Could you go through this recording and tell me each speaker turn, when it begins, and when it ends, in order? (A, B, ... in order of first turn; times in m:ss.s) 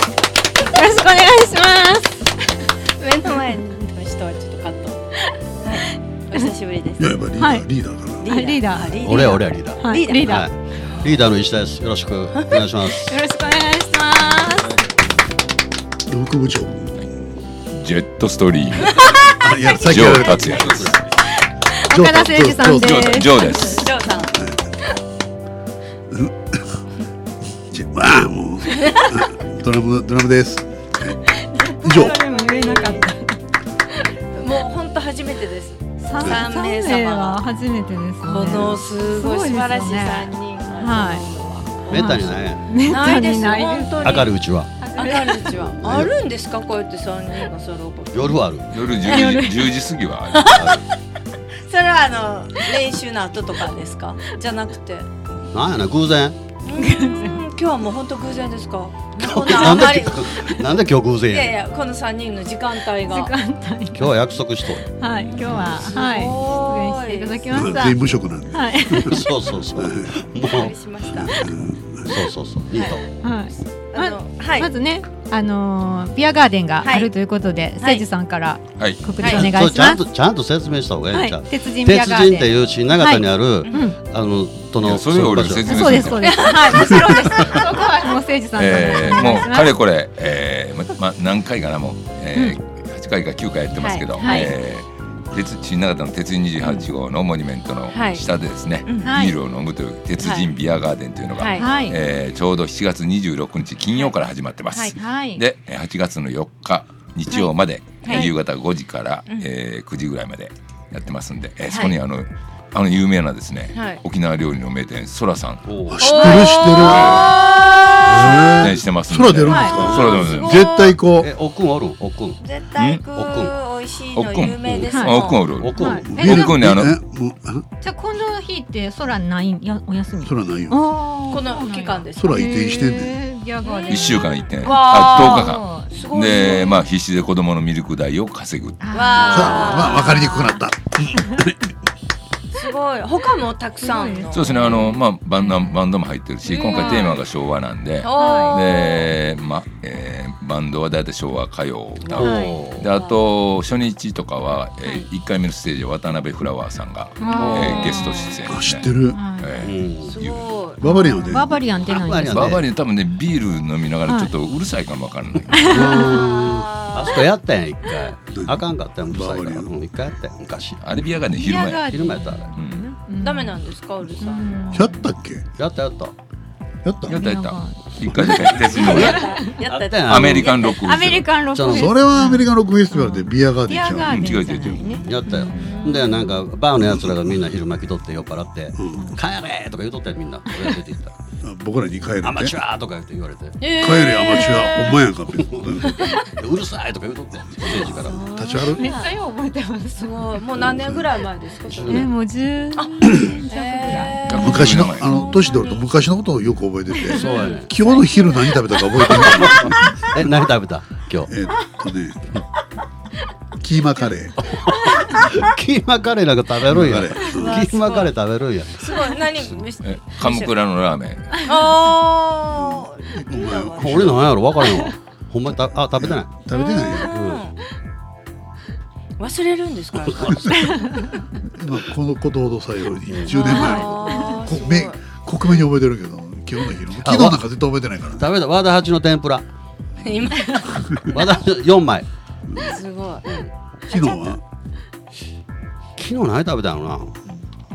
0:00.6-0:02.3 A
0:03.0-0:05.0 B
0:05.6-0:07.1 B
0:07.0-0:08.3 C
0:07.4-0:07.7 A
0:08.2-0:11.3 B
0:08.2-0:10.5 A
0:09.0-0:13.2 D
0:12.3-0:12.6 B
0:12.9-0:14.8 A
0:16.1-0:17.2 C
0:17.7-0:21.0 E
0:18.9-0:19.2 B
0:19.4-0:20.9 C
0:20.2-0:21.0 D
0:21.8-0:23.9 A
0:21.9-0:23.2 C
0:22.7-0:23.9 E
0:23.4-0:24.3 B
0:24.3-0:24.6 C
0:26.1-0:26.8 C
0:27.5-0:31.2 C
0:28.7-0:29.2 B
0:31.5-0:33.4 A
0:31.7-0:33.1 B
0:31.8-0:32.2 C
0:34.3-0:37.4 B
0:36.0-0:41.3 A
0:38.2-0:48.4 B
0:41.9-0:42.8 D
0:41.9-0:45.5 A
0:44.0-0:44.7 D
0:45.5-0:46.1 D
0:48.1-0:48.7 D
0:48.7-0:50.6 E
0:49.0-0:49.4 B
0:49.0-0:49.7 A
0:50.3-0:50.8 B
0:50.5-0:50.8 D
0:51.6-0:55.1 B
0:55.5-0:56.4 D
0:56.6-1:00.7 B
0:56.7-0:57.4 A
0:59.2-1:01.6 D
1:01.3-1:03.3 B
1:03.1-1:04.2 A
1:03.9-1:04.8 D
1:04.9-1:09.3 A
1:05.1-1:07.6 B
1:07.5-1:09.2 C
1:09.0-1:10.7 D
1:09.8-1:10.3 C
1:10.3-1:11.5 B
1:11.1-1:12.2 C
1:12.0-1:13.0 D
1:12.7-1:13.0 B
1:13.2-1:20.0 A
1:13.9-1:14.7 B
1:16.8-1:17.1 B
1:18.8-1:19.2 E
1:19.2-1:19.5 B
1:19.3-1:26.2 D
1:21.1-1:24.0 A
1:24.8-1:26.6 E
1:25.6-1:29.7 A
1:26.2-1:27.9 B
1:28.6-1:55.7 E
1:33.8-1:34.5 B
1:34.2-1:34.5 A
1:36.6-1:36.9 B
1:37.9-1:38.2 B
1:38.8-1:39.1 B
1:39.0-1:39.4 A
1:40.2-1:40.5 B
1:41.4-1:41.7 B
1:41.5-1:42.0 A
1:44.9-1:45.4 A
1:48.0-1:48.3 B
1:51.7-1:51.9 B
1:53.7-1:54.0 B
1:55.6-1:56.3 D
1:55.9-1:57.4 C
1:56.0-1:58.7 B
1:56.7-1:57.4 E
1:58.0-2:01.3 C
1:58.3-2:00.7 E
1:59.5-1:59.8 A
1:59.7-2:00.3 D
1:59.8-2:01.0 B
2:01.1-2:02.4 D
2:02.4-2:05.4 B
2:02.8-2:03.0 E
2:03.1-2:03.5 D
2:04.1-2:07.0 E
2:04.6-2:04.9 D
2:04.9-2:06.5 A
2:05.5-2:06.3 D
2:06.0-2:07.6 C
2:07.8-2:15.9 A
2:10.2-2:10.8 C
2:11.3-2:12.5 B
2:12.1-2:13.2 C
2:13.6-2:16.8 B
2:13.9-2:19.2 E
2:18.8-2:20.6 A
2:18.9-2:20.4 B
2:19.2-2:21.6 C
2:22.5-2:24.9 B
2:23.8-2:25.7 A
2:24.3-2:40.5 E
2:26.5-2:27.2 B
2:26.7-2:27.1 A
2:28.0-2:29.1 B
2:28.2-2:28.6 A
2:32.0-2:33.2 B
2:32.1-2:32.9 D
2:32.2-2:32.6 A
2:37.2-2:38.4 A
2:37.3-2:37.9 D
2:37.3-2:38.3 B
2:38.4-2:39.2 C
2:39.1-2:39.6 A
2:39.6-2:40.2 D
2:40.0-2:41.3 B
2:40.8-2:41.6 C
2:40.8-2:42.6 A
2:41.8-2:42.6 D
2:42.3-2:45.9 E
2:44.0-2:44.3 A
2:45.5-2:46.2 A
2:45.6-2:46.4 D
2:45.7-2:46.7 C
2:45.7-2:47.3 B
2:46.9-2:50.8 D
2:48.3-2:49.7 C
2:50.8-2:51.9 E
2:51.4-2:53.6 A
2:51.9-2:52.5 D
2:52.5-2:52.8 E
2:53.2-2:54.9 B
2:54.2-2:55.0 A
2:54.7-2:55.5 C
2:55.6-2:56.1 D
2:56.8-2:57.2 C
2:57.1-3:01.3 E
2:57.1-2:59.5 A
2:58.1-2:58.4 C
2:58.4-3:00.8 B
2:58.9-3:00.6 D
3:00.6-3:06.1 A
3:01.5-3:01.9 D
3:01.6-3:04.7 C
3:03.9-3:05.1 E
3:05.0-3:11.1 D
3:05.5-3:06.3 B
3:06.9-3:07.2 C
3:08.7-3:09.1 C
3:11.4-3:12.6 C
3:12.2-3:13.6 D
3:13.6-3:15.0 B
3:13.8-3:16.2 C
3:15.3-3:18.2 D
3:15.9-3:16.2 B
3:17.6-3:18.9 C
3:17.8-3:19.1 B
3:18.5-3:20.3 A
3:20.0-3:22.1 B
3:20.6-3:21.1 C
3:21.6-3:22.1 D
3:21.8-3:24.5 A
3:22.8-3:25.8 B
3:24.2-3:25.1 E
3:24.3-3:30.4 C
3:27.0-3:27.6 A
3:27.1-3:27.7 D
3:27.2-3:29.2 B
3:29.1-3:31.3 D
3:31.3-3:32.4 C
3:33.6-3:34.5 C
3:34.4-3:38.8 D
3:36.7-3:37.7 C
3:37.3-3:38.1 B
3:38.7-3:40.5 B
3:39.8-3:41.4 E
3:41.4-3:44.2 B
3:42.5-3:44.3 C
3:43.8-3:46.4 D
3:44.6-3:44.9 A
3:46.0-3:47.1 C
3:46.5-3:47.6 B
3:47.0-3:47.4 D
3:49.2-3:51.2 B
3:50.1-3:50.3 D
3:50.2-3:50.5 C
3:50.5-3:51.0 A
3:51.4-3:58.3 C
3:53.1-3:53.8 D
3:53.3-3:55.0 B
3:53.3-3:54.4 A
3:57.0-3:57.4 D
3:58.2-3:59.4 D
4:00.0-4:01.4 B
4:01.0-4:02.1 D
4:02.5-4:02.8 C
4:02.6-4:03.3 B
4:03.2-4:03.5 D
4:03.9-4:04.4 C
4:03.9-4:04.4 B
4:06.0-4:07.2 D